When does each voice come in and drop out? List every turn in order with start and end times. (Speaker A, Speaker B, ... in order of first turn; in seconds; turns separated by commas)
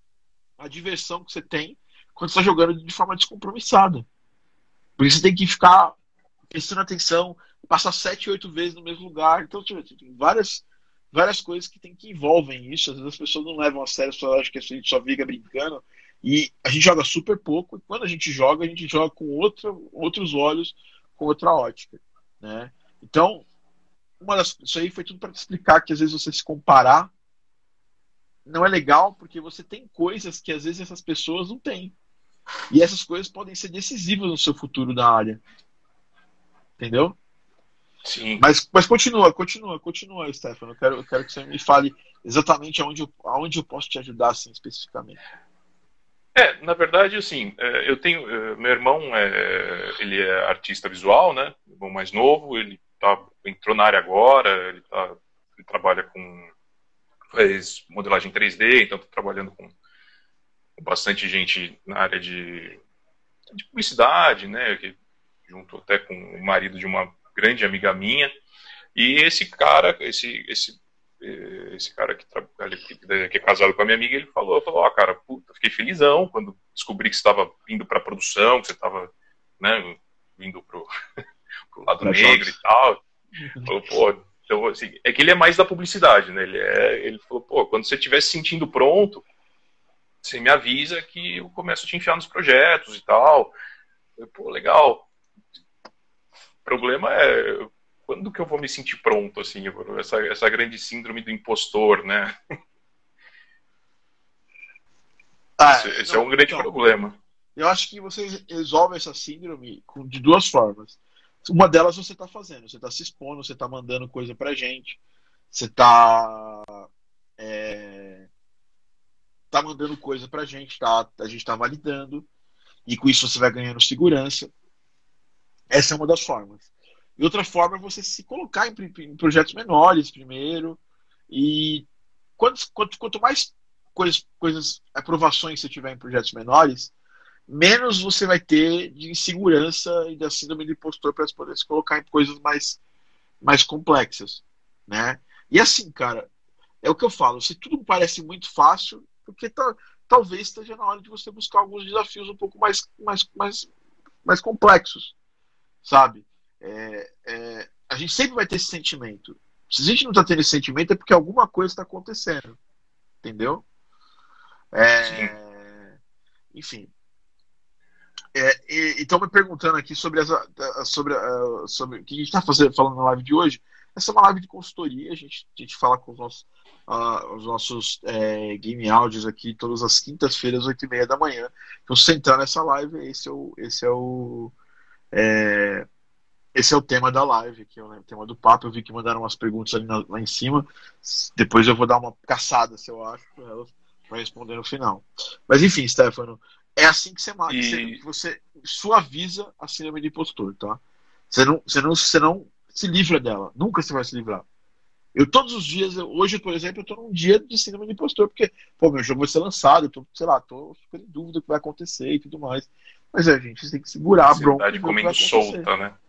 Speaker A: 0.6-4.0, Speaker A: 5.0-5.9, Speaker A: 6.5-23.4, Speaker A: 24.2-27.1, Speaker A: 28.4-31.9, Speaker A: 32.7-35.4, Speaker A: 36.8-37.2, Speaker B: 38.0-38.4, Speaker A: 38.4-45.2, Speaker B: 46.3-56.5, Speaker B: 57.3-59.7, Speaker B: 60.8-62.8, Speaker B: 63.5-65.0, Speaker B: 65.5-68.3, Speaker B: 68.9-80.9, Speaker B: 81.7-83.0, Speaker A: 82.0-82.5, Speaker B: 83.6-89.2, Speaker B: 90.2-93.5, Speaker B: 94.2-95.1, Speaker B: 96.6-102.3, Speaker A: 105.6-106.7, Speaker B: 105.7-107.2, Speaker A: 107.5-115.0, Speaker A: 115.5-116.8, Speaker A: 117.4-118.3, Speaker A: 119.5-122.2, Speaker A: 122.8-124.5, Speaker A: 125.7-126.6, Speaker A: 127.2-130.8, Speaker A: 131.3-131.8, Speaker A: 132.4-136.9, Speaker A: 137.5-142.8, Speaker A: 143.4-146.3, Speaker A: 146.8-153.7, Speaker A: 154.2-155.1, Speaker A: 155.8-162.6, Speaker A: 163.2-163.6, Speaker A: 164.7-165.9, Speaker B: 165.0-165.3, Speaker A: 166.5-166.9, Speaker A: 168.3-184.5, Speaker A: 185.1-185.8, Speaker A: 186.5-204.4, Speaker B: 197.5-198.0, Speaker A: 205.1-215.7, Speaker B: 214.2-215.9